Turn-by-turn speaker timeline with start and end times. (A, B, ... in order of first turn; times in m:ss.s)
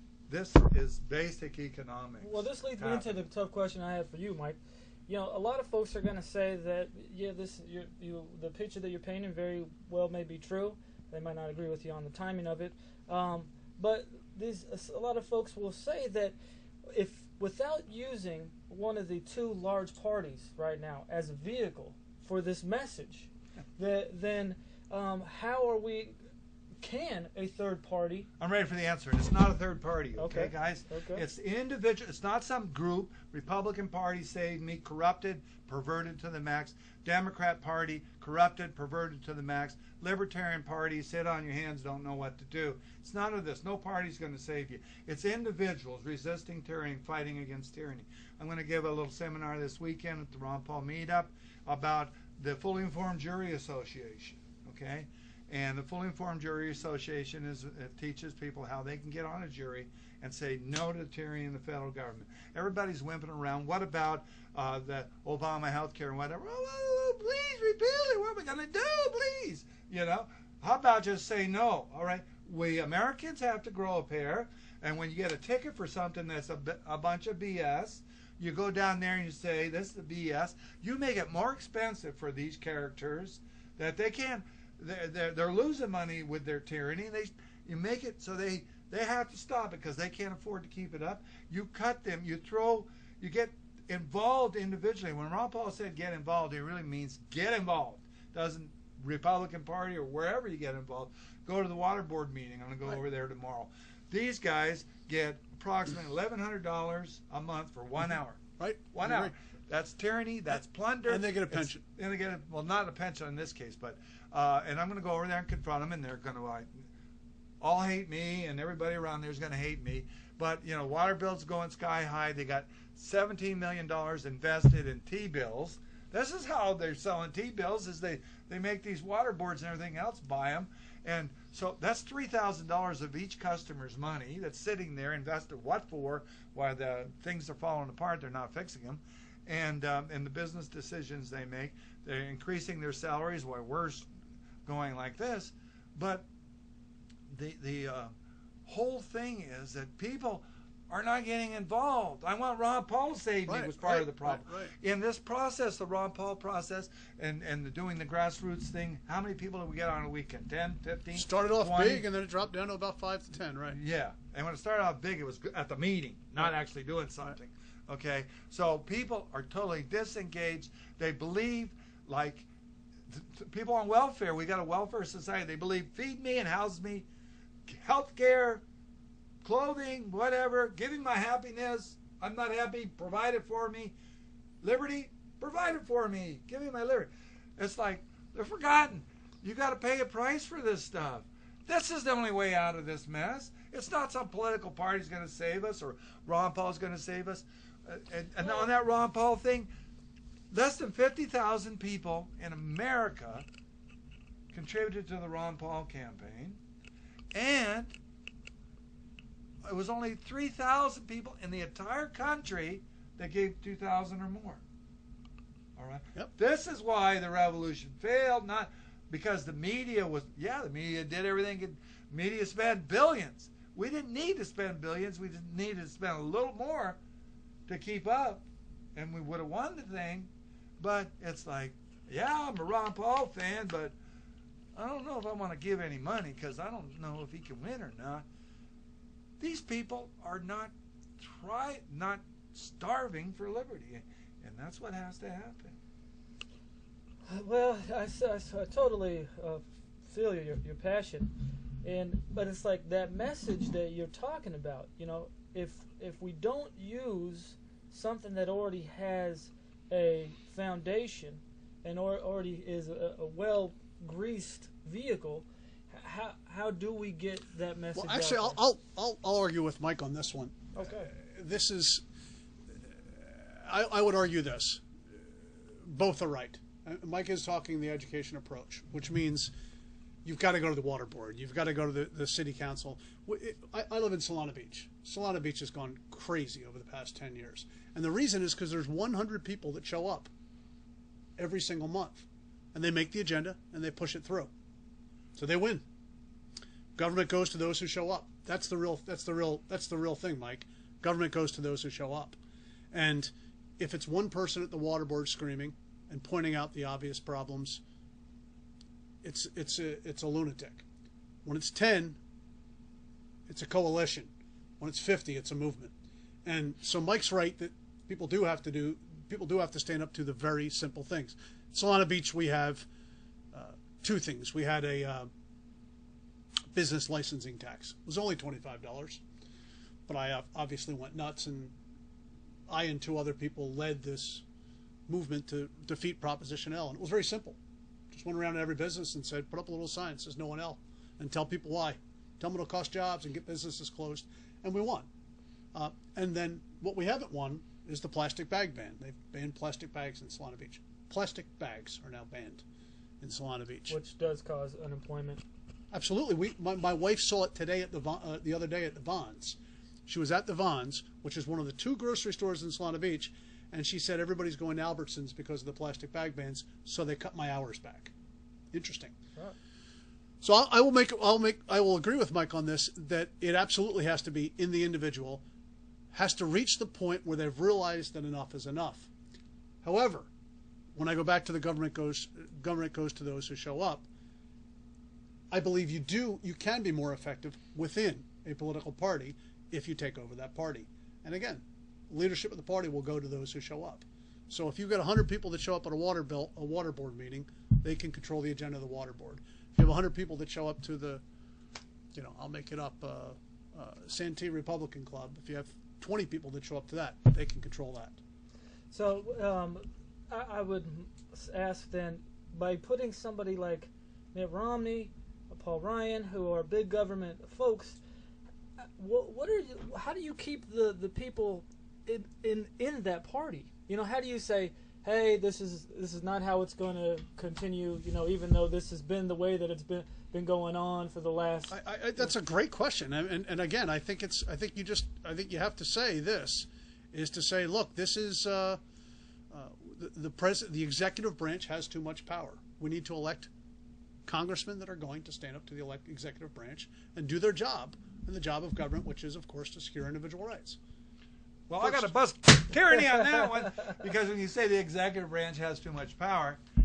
0:00.3-0:03.2 A
0:02.2-0:16.4 B
0:16.9-0:26.2 B
0:26.8-0:28.3 B
0:28.4-1:56.9 A
0:30.2-0:31.2 B
1:48.6-1:49.3 C
1:51.1-1:51.8 C
1:57.6-2:24.1 A
2:24.6-2:26.3 A
2:27.3-2:28.1 A
2:28.7-2:42.1 A
2:33.5-2:34.7 C
2:41.2-2:43.8 C
2:43.7-2:52.5 A
2:53.1-2:57.1 A
2:57.7-2:58.6 A
2:59.4-3:04.0 A
3:04.6-3:19.7 A
3:20.5-3:23.5 A
3:24.5-3:26.6 A
3:27.3-3:28.0 A
3:29.6-3:34.6 A
3:35.8-3:47.0 A
3:47.7-3:54.0 A
3:54.7-3:58.3 A
3:59.4-4:05.8 A
4:07.3-4:28.6 B
4:28.0-4:32.0 C
4:30.8-4:31.1 B
4:32.7-4:39.5 C
4:40.2-4:50.3 C
4:51.4-4:54.5 C
4:55.4-4:55.8 C
4:57.0-5:02.4 C
5:02.9-5:07.8 C
5:09.2-5:10.8 C
5:11.4-5:12.2 C
5:13.5-5:15.9 C
5:16.4-5:22.9 C
5:23.5-5:25.3 C
5:26.7-5:29.2 C
5:30.1-5:31.8 C
5:32.7-5:34.4 C
5:35.1-5:37.6 C
5:38.1-5:45.1 C
5:45.7-5:52.6 C
5:53.2-5:54.0 C
5:53.9-5:55.4 B
5:55.9-6:08.1 C
6:08.7-6:09.2 C
6:10.4-6:15.4 C
6:16.1-6:19.1 C
6:19.8-6:20.3 C
6:21.0-6:24.1 C
6:25.5-6:41.2 C
6:42.1-6:48.2 C
6:48.9-6:58.0 B
6:58.8-7:12.3 B
7:11.7-7:18.8 C
7:19.5-7:23.5 C
7:24.3-7:30.8 C
7:31.7-7:36.6 A
7:31.8-7:32.1 C